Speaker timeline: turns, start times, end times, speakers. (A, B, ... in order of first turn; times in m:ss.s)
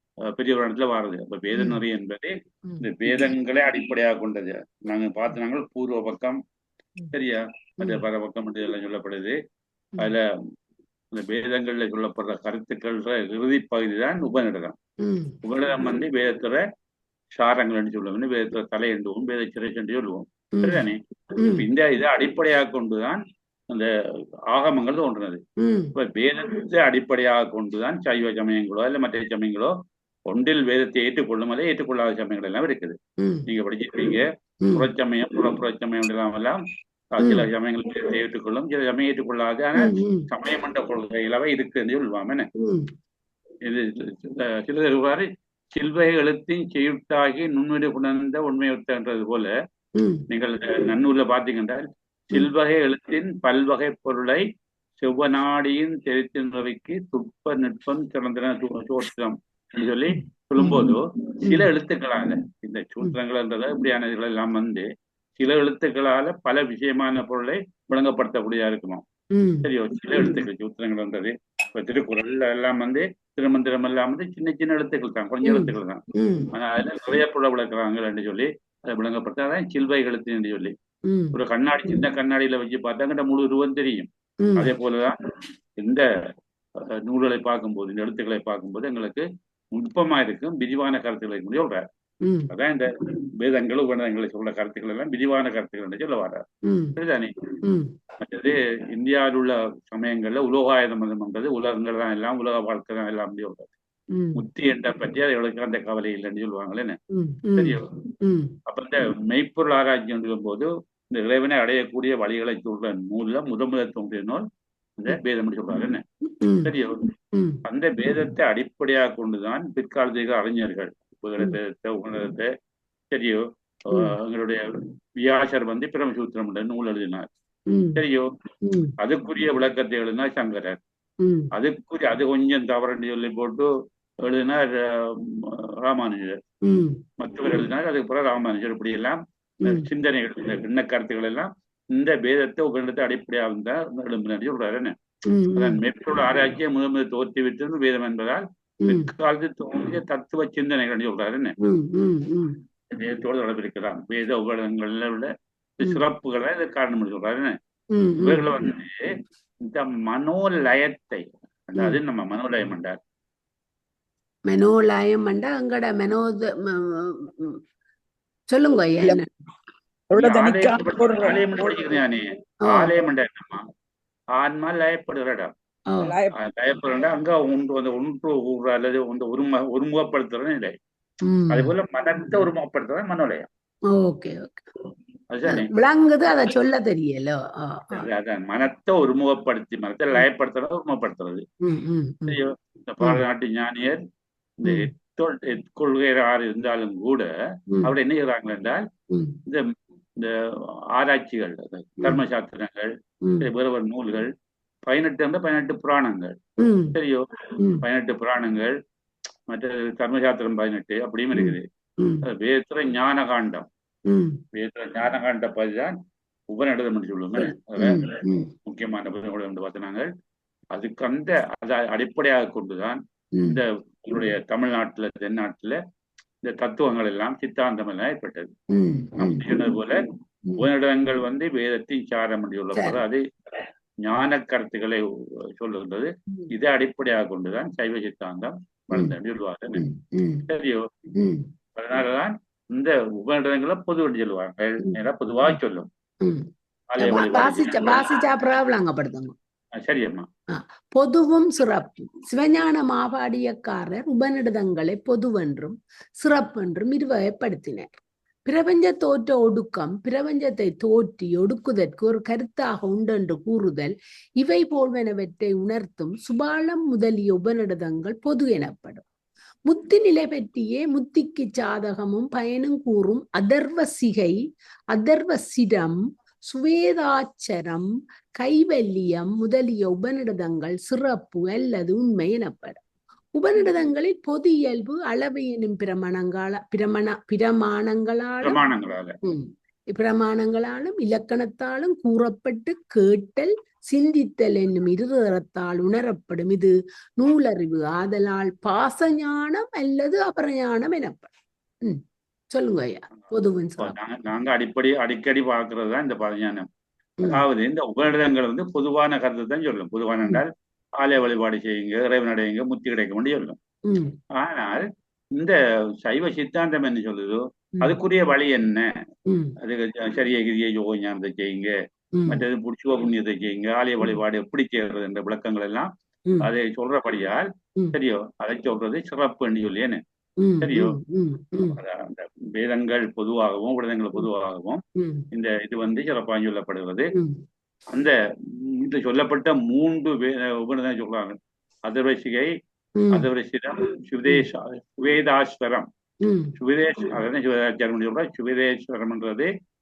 0:00.3-0:06.4 A
0:01.5-0:01.8 B
0:02.7-0:03.3 B
0:07.1-0:09.4 A
0:11.1-0:14.8 A
0:15.0-0:15.4 B
0:15.4-0:16.6 A
0:17.3-0:23.9 A
0:20.6-0:20.8 B
0:21.4-0:21.6 B
0:24.5-0:25.4 A
0:25.6-0:25.9 B
0:26.0-0:29.7 A
0:30.3-0:36.6 A
0:33.2-0:33.4 B
0:37.1-0:42.5 A
0:37.2-0:37.5 B
0:39.8-0:40.2 B
0:42.6-0:42.9 B
0:43.6-0:49.5 A
0:50.0-0:50.2 B
0:50.3-0:54.4 A
0:55.0-1:04.8 A
1:00.1-1:01.7 B
1:05.4-1:09.0 A
1:09.4-1:09.6 B
1:09.6-1:16.0 A
1:15.4-1:16.5 B
1:16.5-1:20.7 A
1:21.1-1:21.3 B
1:21.3-1:25.2 A
1:24.4-1:24.7 B
1:25.8-1:26.0 A
1:27.0-1:31.8 A
1:32.2-1:32.5 B
1:32.5-1:36.4 A
1:36.6-1:36.9 B
1:37.0-1:37.5 A
1:37.6-1:37.9 B
1:38.2-1:43.7 A
1:44.1-1:44.4 B
1:44.4-1:47.0 A
1:47.1-1:48.5 B
1:47.6-1:47.8 A
1:48.7-1:54.4 A
1:55.0-1:56.0 A
1:56.4-1:56.7 B
1:56.6-1:57.1 A
1:57.3-1:57.6 B
1:57.6-2:02.5 A
2:03.1-2:04.6 A
2:05.2-2:07.3 A
2:07.7-2:08.0 B
2:08.0-2:08.3 A
2:08.6-2:08.9 B
2:09.0-2:10.8 A
2:11.2-2:11.5 B
2:11.5-2:13.7 A
2:14.2-2:16.4 A
2:16.6-2:17.0 B
2:17.2-2:24.9 A
2:25.3-2:25.8 B
2:25.5-2:31.5 A
2:28.8-2:29.1 B
2:31.6-2:32.6 B
2:32.9-2:37.6 A
2:37.9-2:38.4 B
2:38.2-2:39.0 A
2:39.6-2:43.0 A
2:44.5-2:47.6 B
2:48.5-2:49.3 B
2:50.1-2:51.7 C
2:50.2-2:53.7 A
2:54.4-2:55.5 A
2:56.0-2:56.3 C
2:56.3-3:00.8 A
3:01.3-3:01.7 B
3:01.5-3:03.5 A
3:03.9-3:04.7 B
3:05.3-3:05.7 A
3:05.5-3:08.1 B
3:07.9-3:11.4 A
3:11.6-3:12.4 B
3:12.3-3:14.0 A
3:14.6-3:17.3 A
3:17.8-3:18.8 A
3:19.5-3:22.9 A
3:23.4-3:24.3 A
3:24.9-3:26.4 A
3:26.6-3:26.9 B
3:26.9-3:27.2 A
3:27.8-3:28.7 A
3:29.5-3:31.6 A
3:31.3-3:32.2 B
3:32.2-3:33.7 A
3:34.1-3:34.4 B
3:34.5-3:35.9 A
3:36.5-3:40.1 A
3:37.4-3:38.5 B
3:40.7-3:45.8 A
3:46.4-3:48.5 A
3:48.7-3:49.5 B
3:49.2-3:50.0 A
3:50.6-3:53.2 A
3:54.0-3:55.0 A
3:55.6-3:59.9 A
3:59.8-4:00.4 B
4:00.5-4:00.8 A
4:01.2-4:01.5 B
4:01.8-4:05.9 A
4:06.9-4:08.0 A
4:07.0-4:09.4 B
4:09.8-4:10.3 A
4:10.5-4:17.9 B
4:18.4-4:29.0 B
4:29.7-4:34.4 B
4:34.9-4:42.8 B
4:43.4-4:48.6 B
4:43.6-4:43.8 A
4:48.4-4:49.2 A
4:49.2-5:01.3 B
5:02.5-5:03.9 B
5:03.8-5:06.6 A
5:07.2-5:13.6 A
5:13.9-5:14.1 B
5:14.4-5:14.8 A
5:15.4-5:18.9 A
5:19.3-5:19.5 B
5:19.6-5:21.7 A
5:22.2-5:22.4 B
5:22.3-5:25.9 A
5:26.4-5:30.0 A
5:30.4-5:31.8 B
5:30.6-5:31.0 A
5:31.7-5:37.1 A
5:35.0-5:35.2 B
5:38.6-5:42.5 A
5:43.0-5:43.2 B
5:43.1-5:45.9 A
5:46.2-5:46.5 B
5:46.6-5:49.5 A